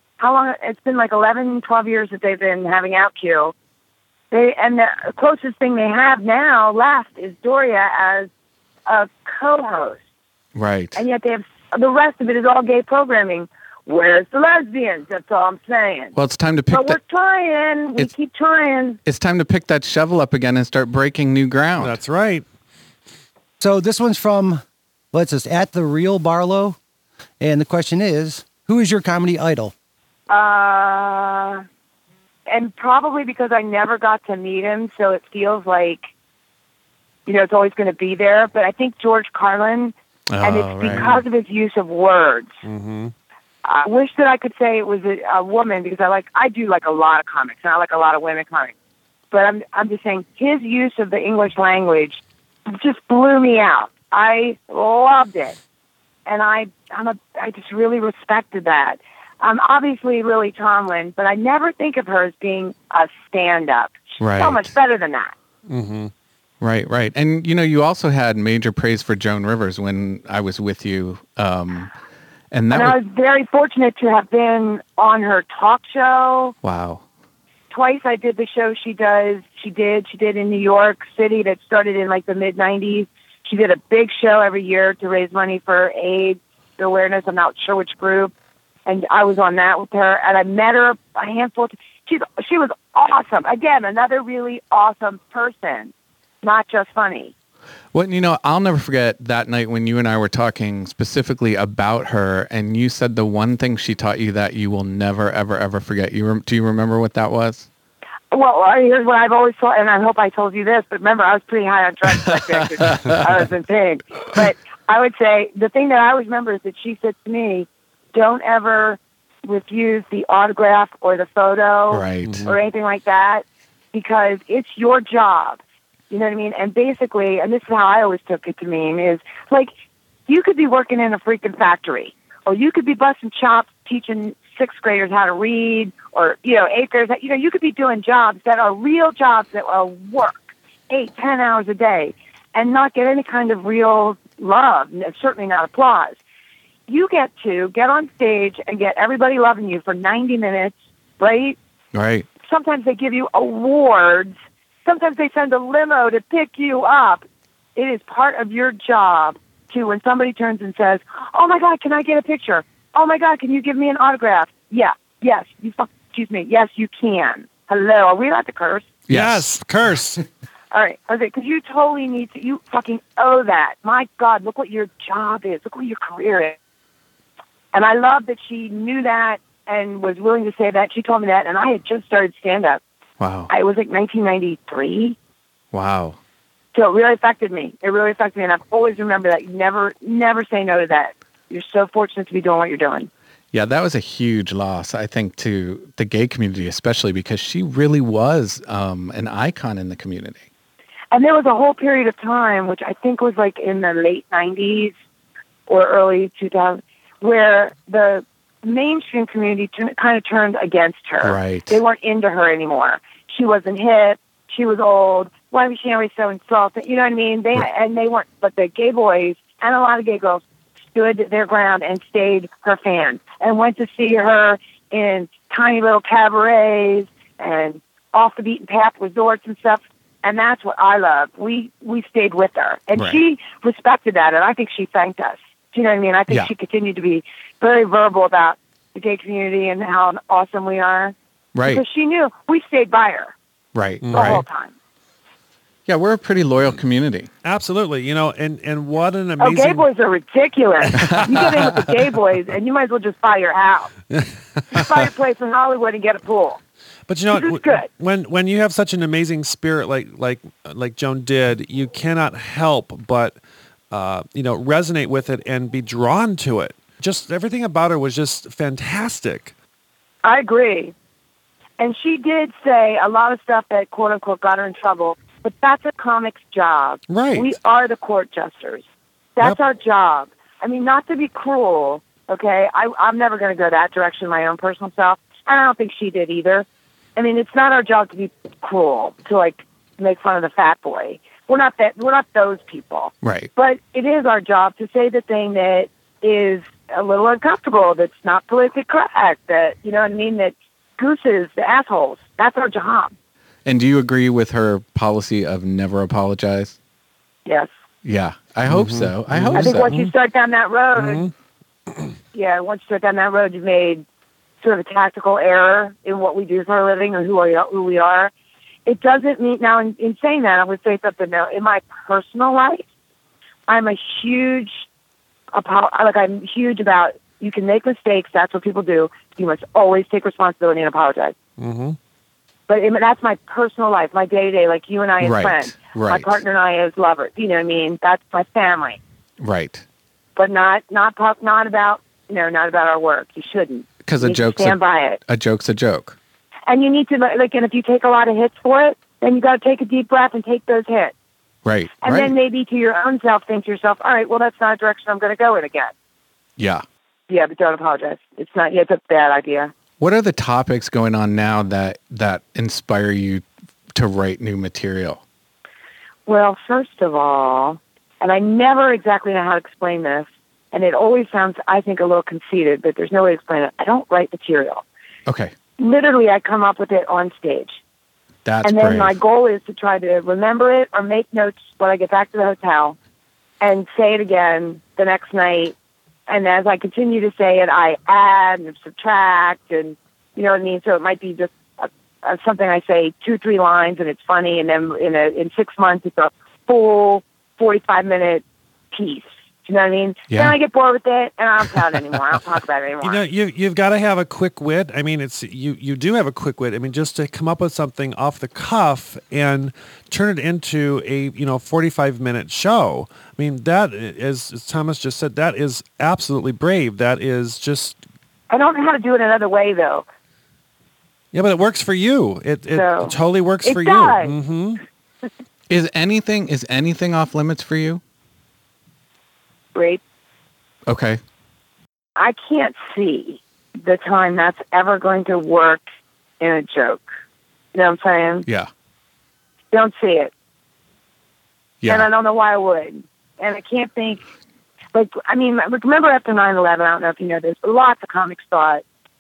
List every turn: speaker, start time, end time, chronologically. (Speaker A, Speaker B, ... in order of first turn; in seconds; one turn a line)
Speaker A: 0.2-3.5
Speaker A: 4.3-8.3
Speaker A: 8.8-10.0
Speaker B: 10.5-11.0
Speaker A: 10.9-16.1
Speaker B: 16.1-17.0
Speaker A: 16.7-19.0
Speaker B: 19.0-22.0
Speaker C: 21.8-22.4
Speaker D: 23.6-26.8
Speaker D: 27.4-29.7
Speaker A: 30.3-31.6
Speaker A: 32.5-36.0
Speaker A: 37.2-42.5
Speaker B: 40.3-41.2
Speaker C: 42.6-43.1
Speaker A: 43.6-48.7
Speaker A: 49.3-55.6
Speaker A: 56.2-65.3
Speaker B: 64.2-64.7
Speaker C: 65.7-66.1
Speaker B: 66.6-71.9
Speaker B: 72.5-73.0
Speaker A: 72.7-76.5
Speaker B: 76.6-77.0
Speaker A: 77.7-88.3
Speaker A: 88.8-97.3
Speaker B: 97.9-107.7
Speaker A: 108.3-129.7
Speaker B: 121.9-122.5
Speaker C: 122.2-122.5
Speaker A: 130.3-146.2
Speaker A: 146.9-151.6
Speaker B: 151.9-152.3
Speaker A: 152.4-157.2
Speaker A: 157.8-168.9
Speaker B: 169.1-169.5
Speaker C: 169.1-170.2
Speaker A: 170.7-176.6
Speaker A: 177.7-182.8
Speaker B: 183.2-183.5
Speaker A: 183.5-185.2
Speaker B: 185.7-186.2
Speaker A: 186.7-193.1
Speaker B: 193.5-200.4
Speaker A: 201.1-204.9
Speaker A: 205.7-243.3
Speaker B: 211.2-211.8
Speaker B: 241.5-241.8
Speaker B: 243.7-244.4
Speaker C: 244.0-244.4
Speaker A: 244.1-244.7
Speaker B: 245.9-247.3
Speaker C: 247.4-249.9
Speaker A: 249.4-253.9
Speaker C: 251.0-251.5
Speaker B: 251.0-251.4
Speaker C: 254.1-254.8
Speaker A: 254.7-256.6
Speaker C: 257.1-263.4
Speaker A: 257.3-257.9
Speaker C: 263.9-269.5
Speaker A: 270.2-270.9
Speaker A: 271.8-278.8
Speaker C: 277.1-277.5
Speaker A: 279.4-303.1
Speaker B: 293.2-293.5
Speaker B: 303.6-306.8
Speaker B: 308.0-309.9
Speaker C: 308.7-310.1
Speaker A: 309.5-311.3
Speaker C: 310.9-311.3
Speaker A: 312.3-314.0
Speaker A: 314.6-318.3
Speaker A: 318.9-322.8
Speaker A: 323.7-324.8
Speaker A: 325.5-331.3
Speaker C: 331.6-332.0
Speaker A: 332.7-339.0
Speaker B: 335.2-336.4
Speaker B: 339.4-339.8
Speaker A: 340.4-345.2
Speaker B: 344.0-346.2
Speaker A: 346.7-351.1
Speaker B: 351.6-352.3
Speaker A: 352.0-355.9
Speaker B: 356.6-356.8
Speaker A: 357.3-359.7
Speaker B: 360.0-365.2
Speaker A: 366.2-374.8
Speaker B: 375.3-375.5
Speaker A: 375.8-377.8
Speaker B: 378.4-379.1
Speaker A: 378.6-382.9
Speaker A: 383.6-385.7
Speaker A: 386.3-403.2
Speaker C: 403.0-418.0
Speaker A: 418.5-420.1
Speaker C: 421.3-424.8
Speaker A: 422.7-424.3
Speaker B: 425.7-428.0
Speaker A: 429.7-430.0
Speaker B: 430.9-431.2
Speaker A: 432.2-435.8
Speaker A: 436.4-437.0
Speaker A: 437.7-438.4
Speaker A: 439.7-440.3
Speaker B: 441.8-442.1
Speaker A: 441.9-444.2
Speaker A: 444.9-448.8